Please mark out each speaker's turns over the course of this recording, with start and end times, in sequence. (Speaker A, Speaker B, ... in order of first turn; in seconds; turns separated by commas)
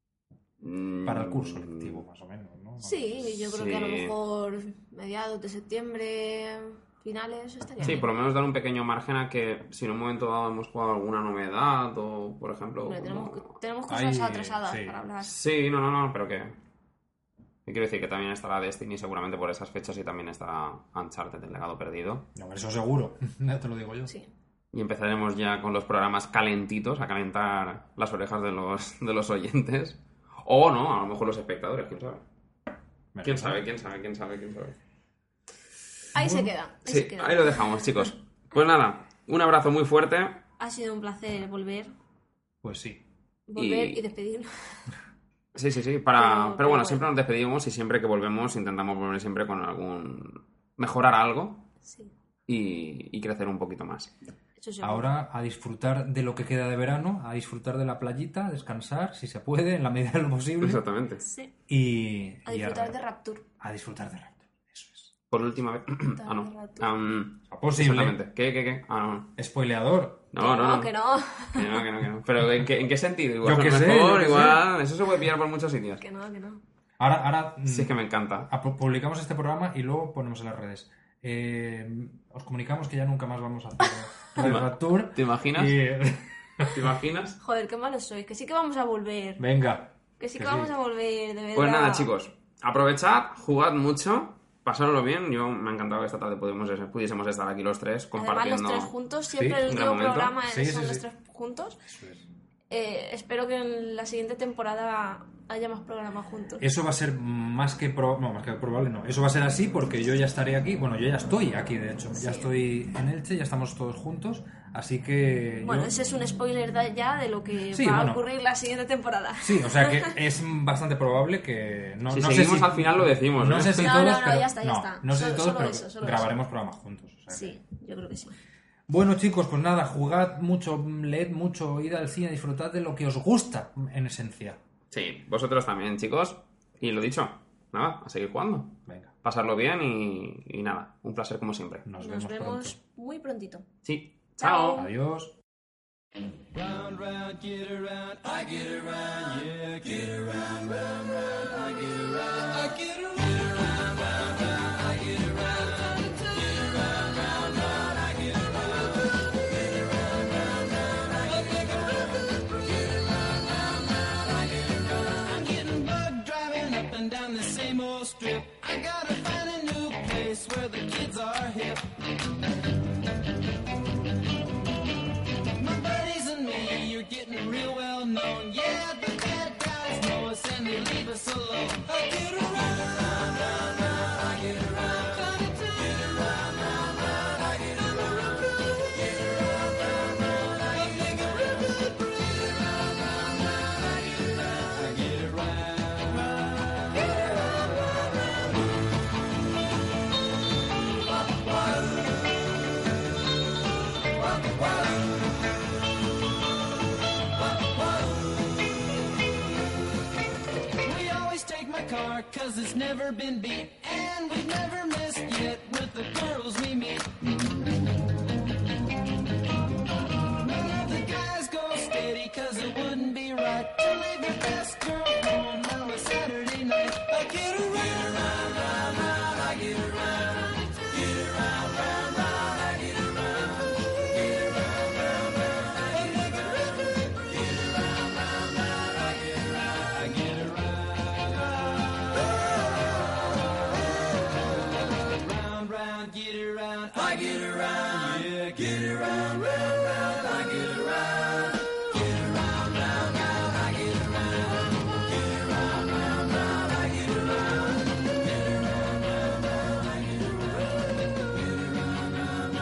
Speaker A: 0.6-2.0, Speaker B: 1.1-3.4, Speaker C: 2.8-8.1, Speaker A: 3.5-4.1, Speaker A: 7.8-13.4, Speaker C: 12.8-15.4, Speaker B: 13.9-15.0, Speaker A: 15.2-16.6, Speaker A: 17.7-22.3, Speaker B: 22.4-24.1, Speaker A: 24.7-32.2, Speaker B: 33.1-33.7, Speaker A: 33.2-34.8, Speaker C: 36.1-38.0, Speaker B: 36.2-36.5, Speaker A: 36.9-40.4, Speaker C: 40.6-41.9, Speaker B: 42.6-43.0, Speaker C: 43.5-44.9, Speaker A: 43.6-44.0, Speaker A: 45.5-51.7, Speaker C: 46.1-47.0, Speaker C: 51.8-52.1, Speaker A: 52.5-54.1, Speaker C: 54.6-55.1, Speaker B: 54.8-60.8, Speaker A: 60.6-61.2, Speaker C: 61.2-61.5, Speaker B: 61.7-63.0, Speaker C: 62.5-63.5, Speaker B: 63.6-65.1, Speaker A: 65.3-69.3, Speaker C: 66.2-66.9, Speaker B: 67.5-68.2, Speaker B: 69.4-70.3, Speaker A: 70.3-70.9, Speaker C: 70.4-71.9, Speaker A: 71.5-76.0, Speaker B: 73.4-74.6, Speaker C: 76.0-76.6, Speaker B: 77.0-86.8, Speaker A: 77.7-78.5, Speaker A: 84.4-85.8, Speaker A: 86.7-87.4, Speaker C: 87.4-89.4, Speaker B: 89.4-90.7, Speaker C: 90.2-92.1, Speaker A: 91.5-98.9, Speaker C: 98.2-101.8, Speaker B: 99.3-99.7, Speaker A: 99.7-100.3, Speaker B: 100.4-101.1, Speaker B: 101.9-102.2, Speaker C: 102.7-106.6, Speaker B: 106.6-115.9, Speaker C: 112.2-112.5, Speaker C: 115.6-120.2, Speaker B: 117.7-118.2, Speaker B: 119.4-127.6, Speaker A: 122.1-124.2, Speaker C: 123.8-126.3, Speaker C: 127.3-128.4, Speaker B: 128.9-134.6, Speaker A: 134.9-141.8, Speaker B: 138.9-139.1, Speaker B: 141.8-142.8, Speaker C: 142.0-143.7, Speaker A: 143.8-144.8, Speaker C: 144.4-144.9, Speaker B: 144.8-145.3, Speaker D: 146.5-171.9, Speaker D: 175.6-198.0, Speaker D: 201.1-202.2, Speaker D: 204.2-205.1, Speaker D: 207.4-208.3, Speaker D: 210.8-217.4, Speaker D: 220.4-258.0, Speaker D: 261.9-262.2